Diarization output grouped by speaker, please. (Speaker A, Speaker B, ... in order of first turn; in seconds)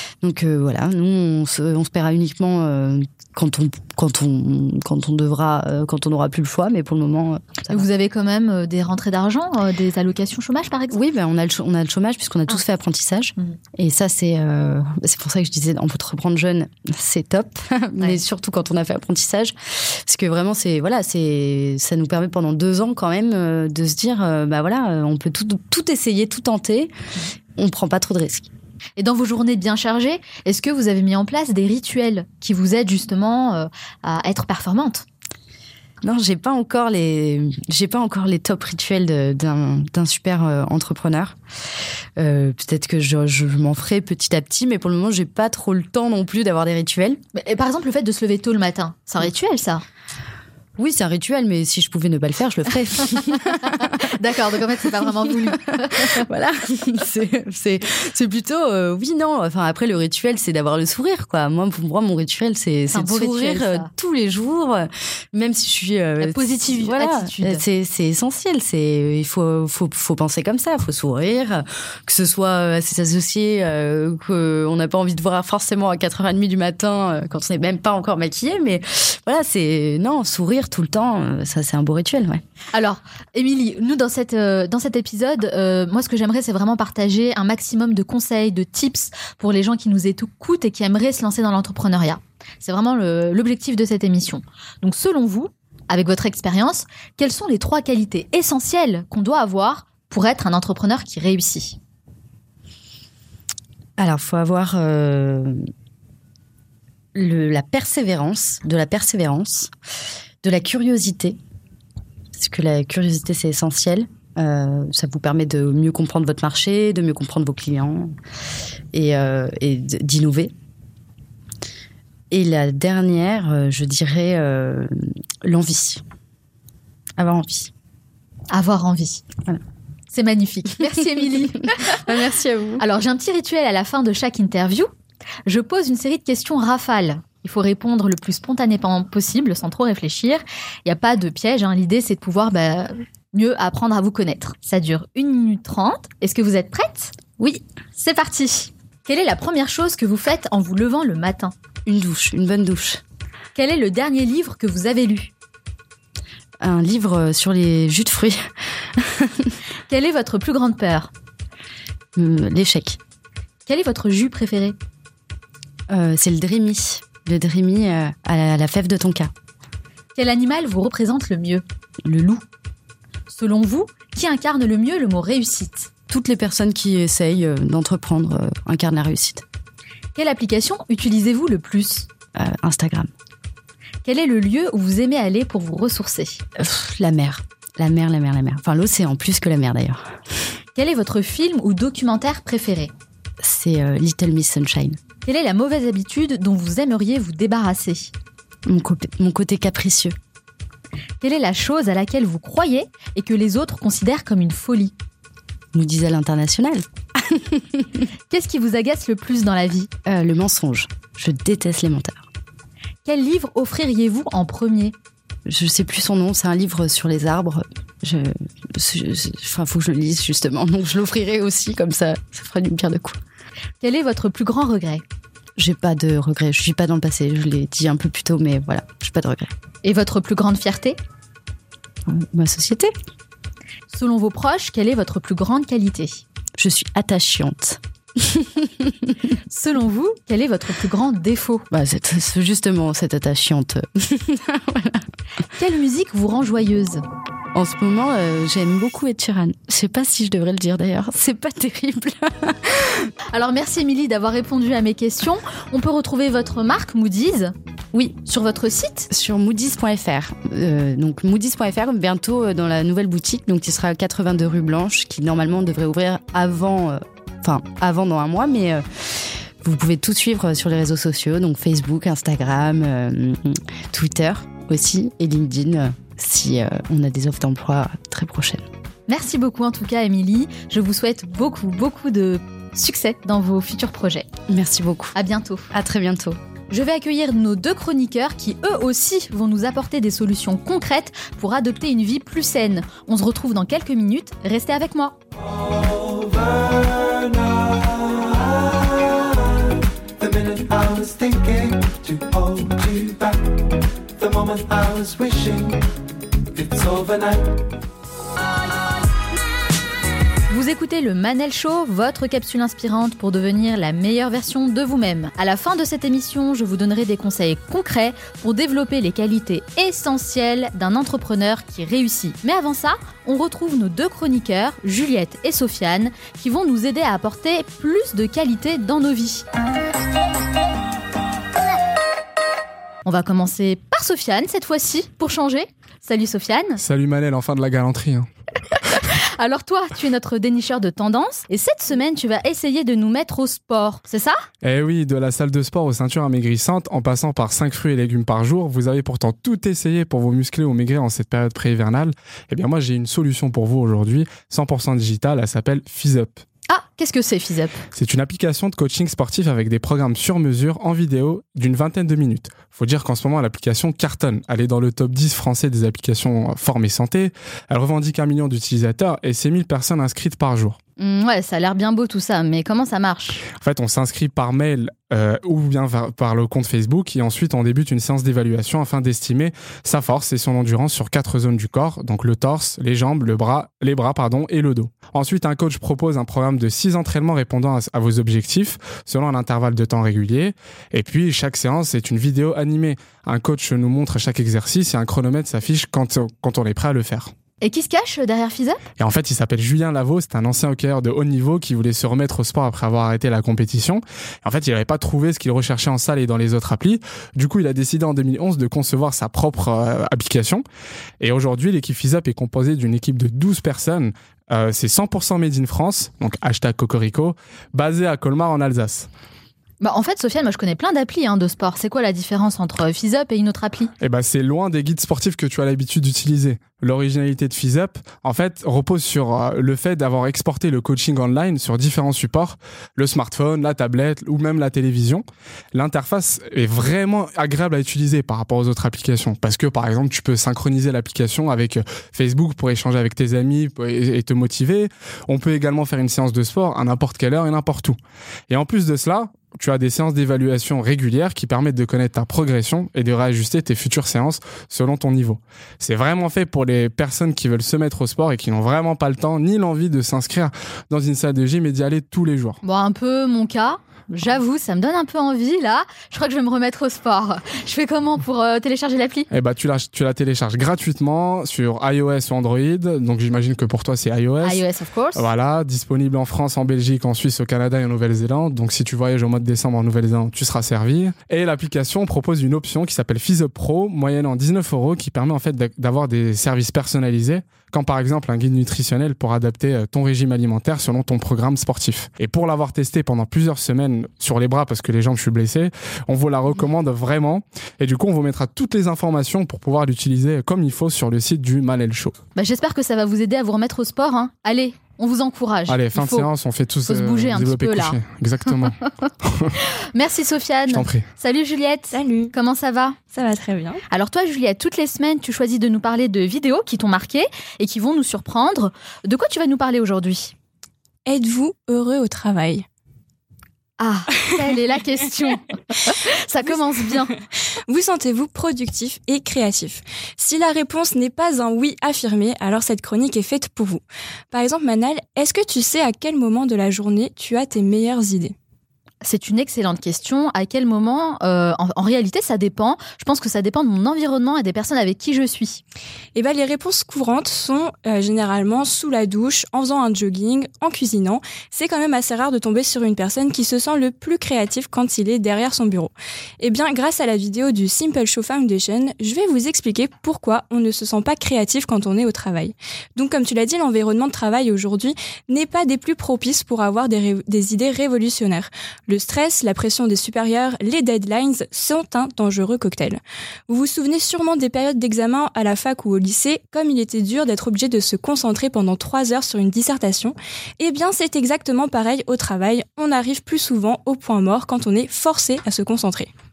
Speaker A: 0.2-7.9, 10.9-26.9, 27.6-28.5, 36.0-41.4, 42.2-47.2, 50.8-53.9, 55.5-82.4, 104.0-105.6, 107.1-109.7, 110.4-111.4, 112.3-118.1, 118.9-120.5, 122.3-126.0, 127.2-127.7, 131.9-132.8, 151.9-153.0, 156.6-159.6, 162.2-163.0, 165.9-169.3, 172.0-172.4, 176.1-179.4, 182.3-183.1, 186.6-190.2, 193.4-195.0, 198.7-200.2, 205.7-207.9, 210.1-212.2, 215.5-223.2, 225.6-229.5, 232.1-232.9, 236.6-239.2, 241.7-245.1, 247.5-253.1, 259.1-278.7, 284.5-285.2, 285.7-286.4
Speaker B: 7.7-11.0, 29.0-35.0, 47.4-49.8, 54.0-56.2, 62.9-63.9, 66.2-67.6, 82.7-101.8, 128.5-129.2, 130.1-132.0, 132.8-134.9, 135.5-151.5, 153.6-155.3, 159.9-161.1, 163.7-164.8, 170.2-171.6, 173.3-175.9, 180.2-182.1, 184.1-186.4, 190.8-192.9, 195.2-198.1, 201.2-204.9, 208.3-209.9, 213.1-214.9, 223.8-225.0, 229.8-231.0, 233.9-236.2, 239.5-241.7, 245.6-247.0, 253.3-259.1, 279.1-284.3, 285.1-285.7, 286.7-295.1, 310.5-329.4, 333.1-336.8, 339.1-344.4, 356.7-357.8, 371.0-373.4, 397.6-398.8, 419.8-423.9, 462.6-469.3, 474.4-475.3, 502.4-506.3, 506.9-508.0, 509.9-513.0, 513.9-520.3, 523.8-527.1, 539.0-545.6
Speaker C: 295.4-303.6, 304.2-305.9, 306.5-307.6
Speaker D: 336.8-338.3, 344.6-356.4, 357.9-370.8, 373.6-397.3, 399.0-410.6, 411.2-419.1, 424.0-448.0, 448.5-462.6, 469.3-474.6, 475.1-502.2, 505.7-509.5, 510.7-511.0
Speaker E: 511.9-512.3, 513.1-513.8, 521.1-522.6, 527.7-538.4, 546.1-586.1